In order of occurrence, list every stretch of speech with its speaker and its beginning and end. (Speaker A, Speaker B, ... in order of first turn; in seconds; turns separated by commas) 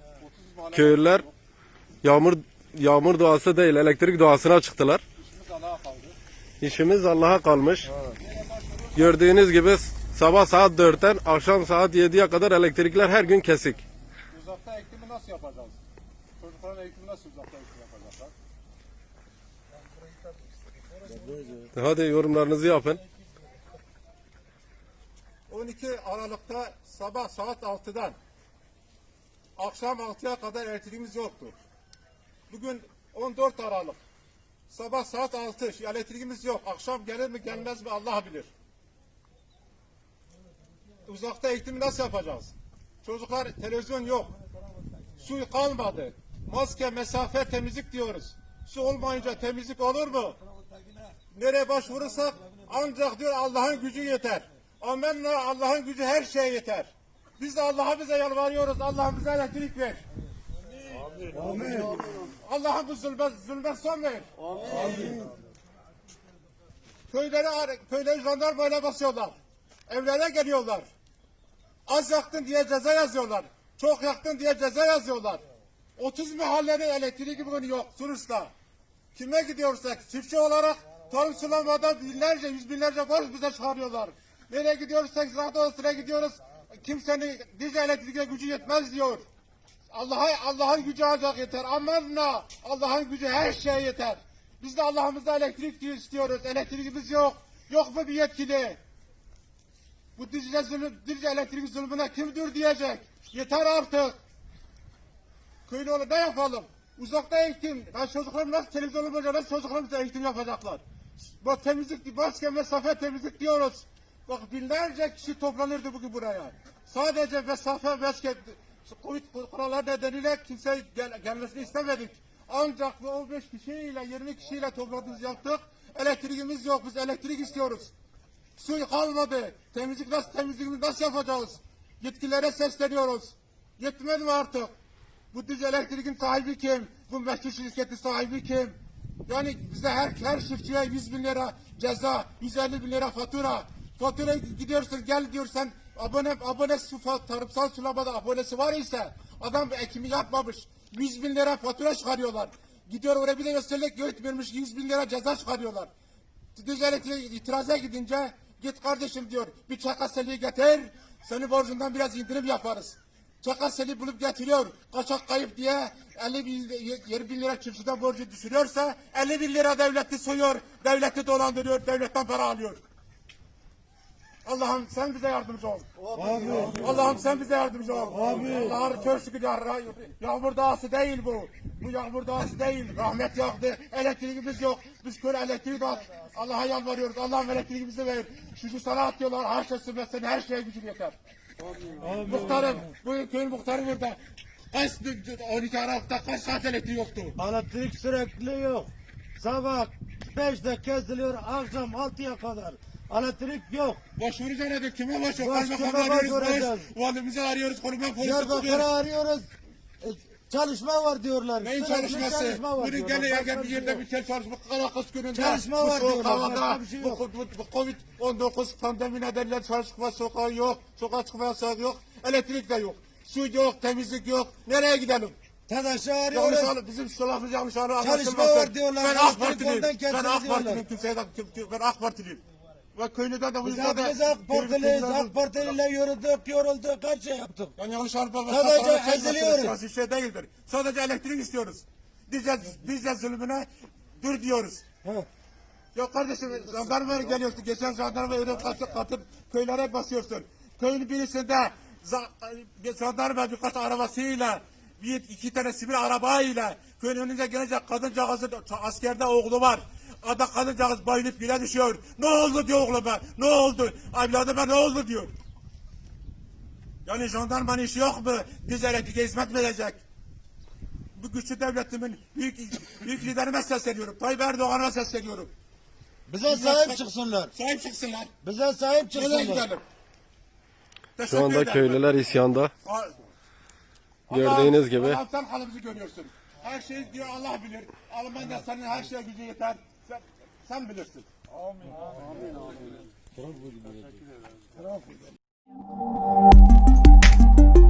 Speaker A: 0.2-1.3, Speaker B: 0.7-1.2, Speaker B: 2.0-5.0, Speaker A: 5.2-6.2, Speaker B: 6.6-7.9, Speaker A: 8.2-9.1, Speaker B: 8.9-13.8, Speaker A: 14.3-15.8, Speaker A: 16.4-18.3, Speaker B: 21.7-23.0, Speaker A: 25.5-28.2, Speaker A: 29.6-31.6, Speaker A: 32.5-34.0, Speaker A: 34.7-38.5, Speaker A: 41.0-44.3, Speaker A: 45.2-50.4, Speaker A: 51.3-60.0, Speaker C: 61.3-62.0, Speaker A: 62.4-64.3, Speaker C: 64.7-65.2, Speaker A: 67.1-70.9, Speaker A: 71.9-75.4, Speaker A: 76.0-78.5, Speaker A: 79.1-89.2, Speaker A: 89.9-98.8, Speaker A: 100.2-104.2, Speaker A: 105.7-110.8, Speaker A: 111.4-127.9, Speaker A: 128.6-134.7, Speaker A: 135.3-155.9, Speaker A: 156.5-172.8, Speaker A: 174.4-175.9, Speaker C: 176.1-177.0, Speaker A: 176.8-191.2, Speaker C: 178.1-178.8, Speaker C: 191.9-192.9, Speaker A: 192.2-197.4, Speaker C: 197.3-204.0, Speaker A: 204.2-208.9, Speaker C: 205.3-206.9, Speaker C: 208.2-209.5, Speaker C: 210.0-214.0, Speaker A: 211.6-225.4, Speaker C: 215.3-217.2, Speaker C: 225.7-226.7, Speaker A: 226.3-232.4, Speaker C: 228.0-230.8, Speaker A: 232.9-235.4, Speaker C: 233.6-237.8, Speaker A: 237.8-244.8, Speaker C: 238.5-239.8, Speaker C: 245.0-245.3, Speaker A: 245.9-265.3, Speaker A: 267.1-270.0, Speaker A: 271.1-275.5, Speaker C: 276.3-277.5, Speaker A: 276.4-278.3, Speaker C: 278.4-279.7, Speaker A: 279.1-279.8, Speaker A: 281.2-282.1, Speaker B: 281.2-282.7, Speaker A: 282.8-283.1, Speaker B: 284.3-285.2, Speaker A: 284.3-291.3